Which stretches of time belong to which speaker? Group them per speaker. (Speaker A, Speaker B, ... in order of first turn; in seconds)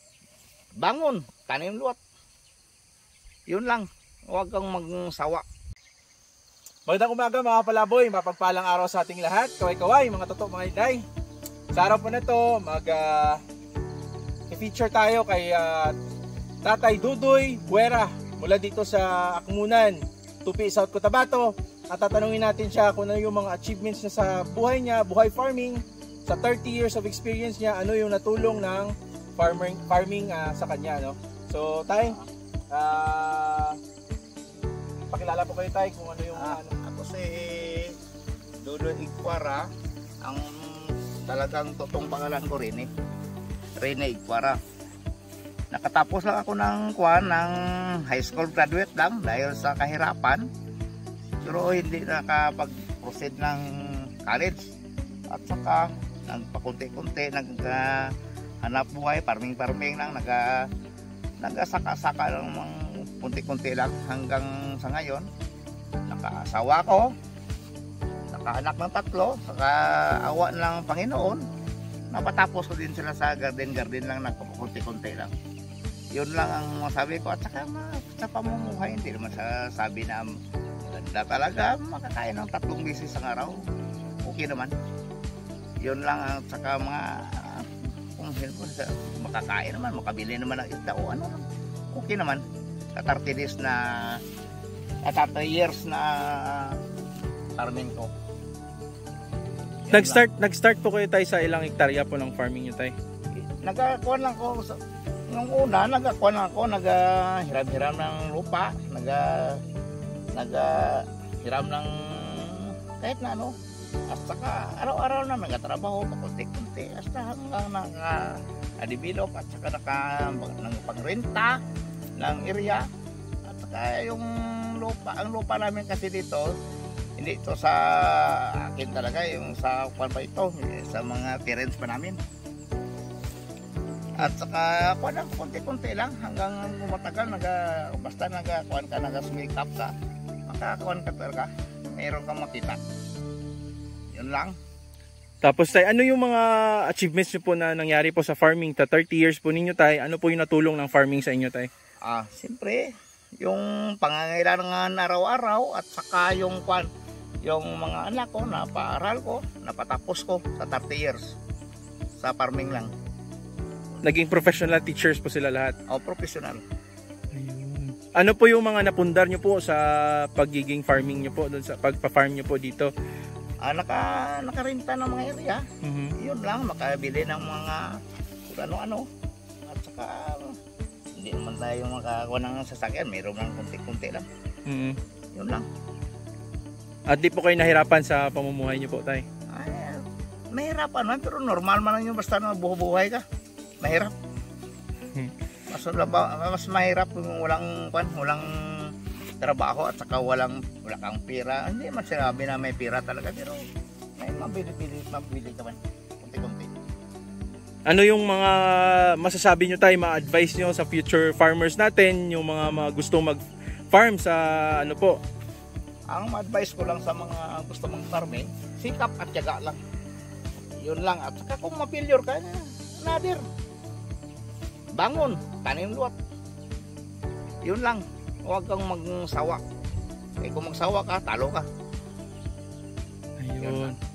Speaker A: 0.8-2.0, 3.5-5.4, 31.9-32.2, 36.3-37.9, 38.6-39.7, 40.2-42.9, 43.8-44.6, 45.7-50.5, 51.4-53.6, 54.2-54.7, 55.3-58.1, 58.6-60.7, 61.4-65.3, 66.1-67.1, 68.3-71.4, 72.1-75.3, 76.1-80.3, 80.8-83.5, 84.2-84.7, 85.8-94.2, 95.0-96.8, 97.6-98.1, 99.9-100.2, 103.6-104.8, 105.3-109.6, 110.3-113.5, 114.1-121.6, 122.2-122.8, 123.5-126.5, 127.2-132.2, 134.2-139.9, 140.5-142.8, 144.1-144.6, 152.0-152.9, 153.4-156.9, 157.4-161.3, 162.2-162.9, 165.9-166.6, 173.6-175.6, 176.2-177.9, 178.5-179.1, 179.6-180.6, 181.2-184.3, 185.3-185.6, 189.5-193.2, 193.8-194.1, 195.7-203.6, 204.2-206.8, 216.1-219.8, 220.8-223.4, 224.9-226.1, 227.6-229.6, 230.4-231.7, 233.6-233.9
Speaker B: 6.8-11.0, 11.7-13.4, 14.5-15.9, 16.6-32.1, 32.7-33.8, 35.1-36.7, 99.9-102.9, 145.4-151.7, 164.0-165.7, 167.3-172.9, 175.8-176.1, 184.7-185.0, 187.1-189.2, 207.8-213.4, 213.9-215.2, 233.4-234.0